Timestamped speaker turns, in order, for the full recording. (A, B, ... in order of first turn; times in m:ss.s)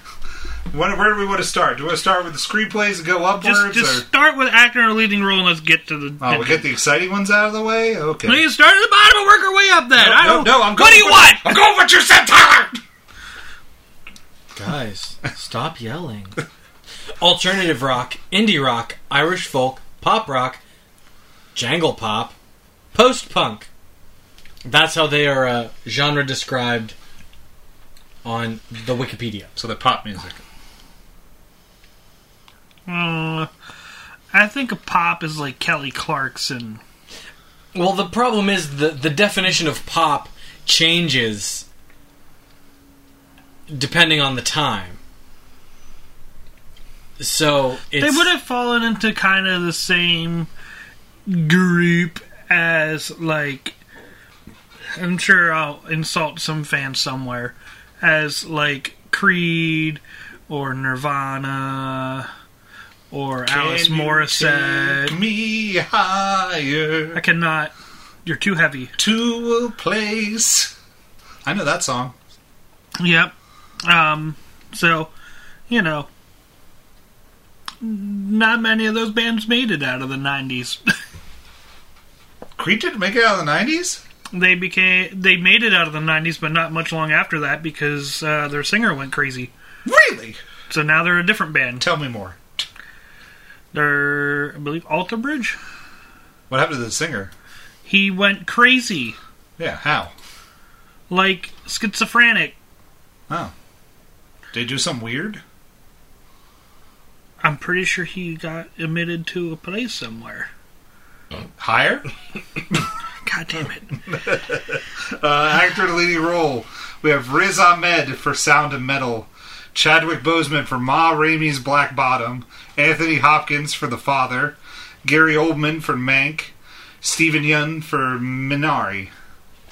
0:00.7-0:04.0 A
0:03.4-0:06.6 B
0:06.2-0:08.5 A
0:08.2-0:11.6 B
0:10.0-0:12.8 A
0:14.5-0:16.4 C
0:17.2-0:20.6 C
0:21.5-0:22.3 C
0:22.9-0:23.7 C
0:24.6-0:26.9 C
0:28.2-0:29.5 C
0:29.6-0:30.4 A
0:32.9-0:33.5 B
0:34.3-0:36.8 B
0:37.7-0:41.6 C
0:43.7-0:45.0 C
0:47.2-0:48.3 C
0:48.0-0:50.5 B
0:51.2-0:53.7 B
0:55.0-1:02.3 B
1:03.1-1:05.2 B
1:03.4-1:07.2 A
1:07.1-1:07.7 B
1:08.2-1:08.9 B
1:09.0-1:10.7 A
1:11.4-1:12.1 A
1:13.0-1:15.1 B
1:15.7-1:16.1 B
1:17.8-1:20.8 B
1:22.6-1:24.0 A
1:24.3-1:29.5 B
1:29.8-1:30.4 A
1:30.7-1:31.8 B
1:31.8-1:32.6 A
1:33.7-1:35.6 B
1:36.5-1:37.3 A
1:37.8-1:39.2 B
1:39.6-1:40.1 A
1:41.1-1:42.6 B
1:44.5-1:45.4 A
1:47.4-1:50.5 B
1:51.6-1:52.1 A
1:53.2-1:53.9 B
1:54.0-2:09.1 A